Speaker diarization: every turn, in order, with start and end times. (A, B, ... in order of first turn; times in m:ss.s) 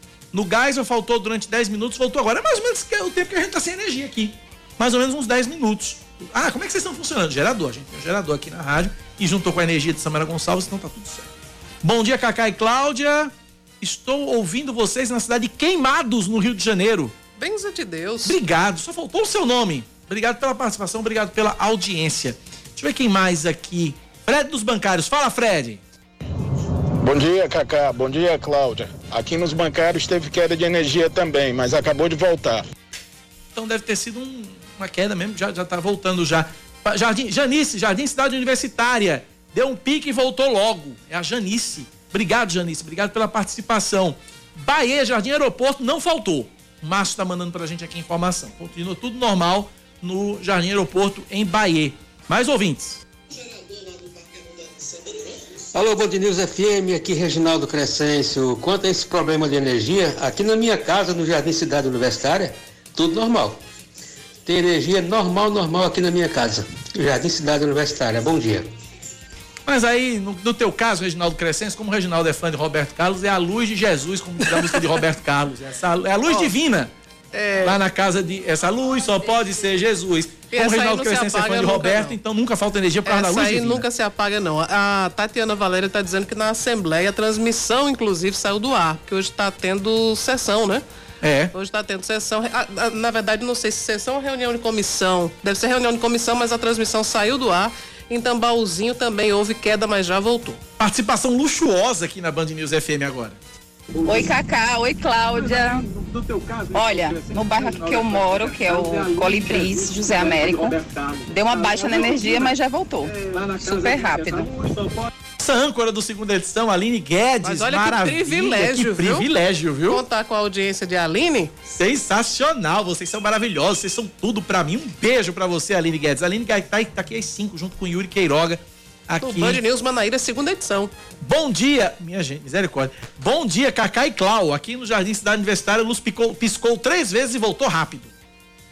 0:00.3-0:17.1 A
0:17.4-0:18.4 B
0:18.2-0:25.8 A
0:27.0-0:32.6 C
0:33.6-0:53.0 A
0:55.7-1:03.6 D
1:04.5-1:08.7 D
1:09.7-1:16.9 A
1:16.3-1:16.5 B
1:17.3-1:17.8 B
1:17.6-1:23.8 A
1:20.5-1:22.2 B
1:23.1-1:30.8 B
1:31.2-1:31.5 A
1:31.5-1:40.6 B
1:40.8-1:43.4 A
1:44.0-1:45.9 E
1:46.7-1:54.5 E
1:55.4-2:00.0 A
1:57.4-1:59.3 B
1:59.9-2:01.5 B
2:01.7-2:09.6 A
2:09.2-2:10.9 B
2:11.2-2:18.1 A